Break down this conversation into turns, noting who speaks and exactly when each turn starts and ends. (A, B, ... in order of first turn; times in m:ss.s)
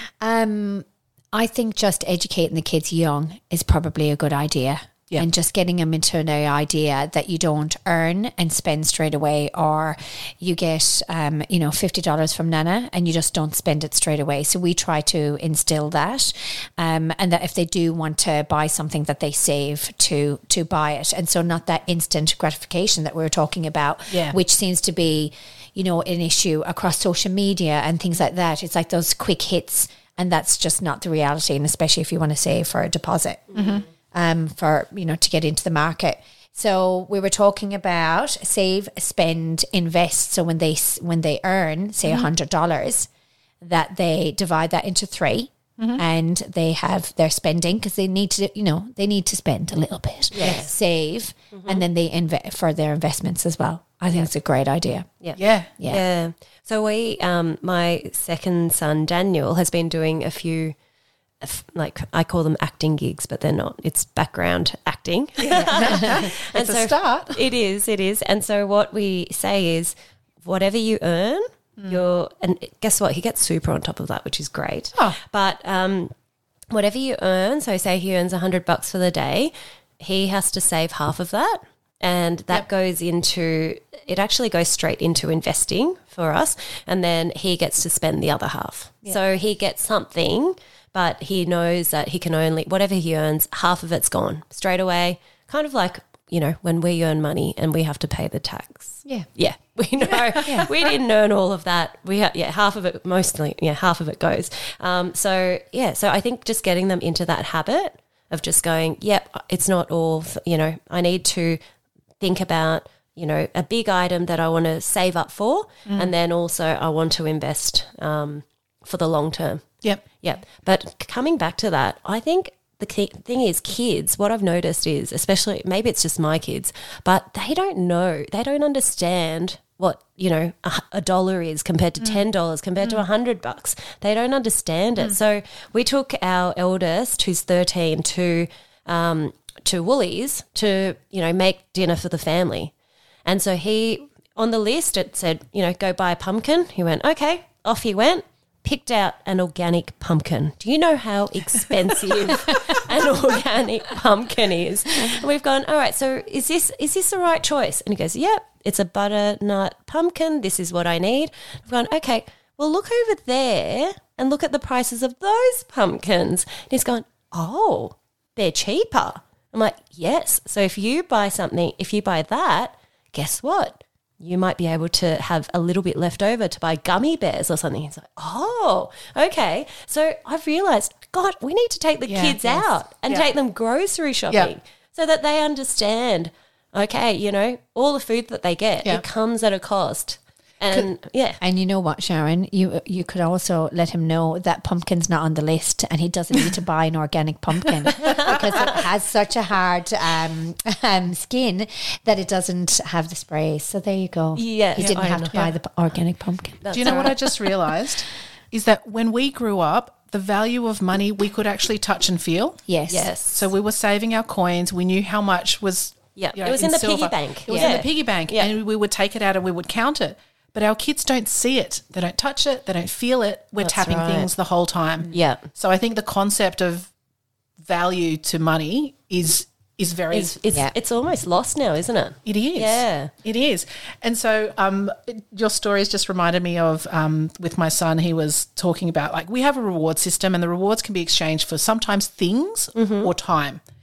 0:00.2-0:43.1 A
0:24.1-0:24.4 B
0:33.5-0:33.9 B
0:42.0-0:42.3 B
0:43.6-0:55.2 A
0:45.8-0:46.0 B
0:50.3-0:50.7 C
0:51.5-0:51.8 C
0:55.2-1:00.8 C
0:55.4-0:55.8 B
0:55.8-0:56.0 A
1:01.4-1:16.1 C
1:05.4-1:07.5 B
1:16.7-1:51.6 C
1:40.4-1:40.7 B
1:52.2-1:59.6 C
1:55.9-1:56.1 B
2:00.2-2:22.7 C
2:23.2-3:11.4 C
3:02.1-3:03.3 B
3:11.4-3:27.2 A
3:17.9-3:18.7 B
3:18.0-3:18.5 C
3:24.4-3:25.4 C
3:24.8-3:25.6 B
3:26.6-3:27.6 C
3:26.7-3:32.6 B
3:32.7-3:33.1 A
3:32.9-3:33.5 C
3:33.2-3:46.9 B
3:36.2-3:38.5 C
3:37.5-3:37.8 A
3:43.6-3:44.3 C
3:45.1-3:45.4 C
3:47.6-3:50.4 B
3:50.1-3:53.1 C
3:52.2-4:03.6 B
4:02.8-4:03.1 C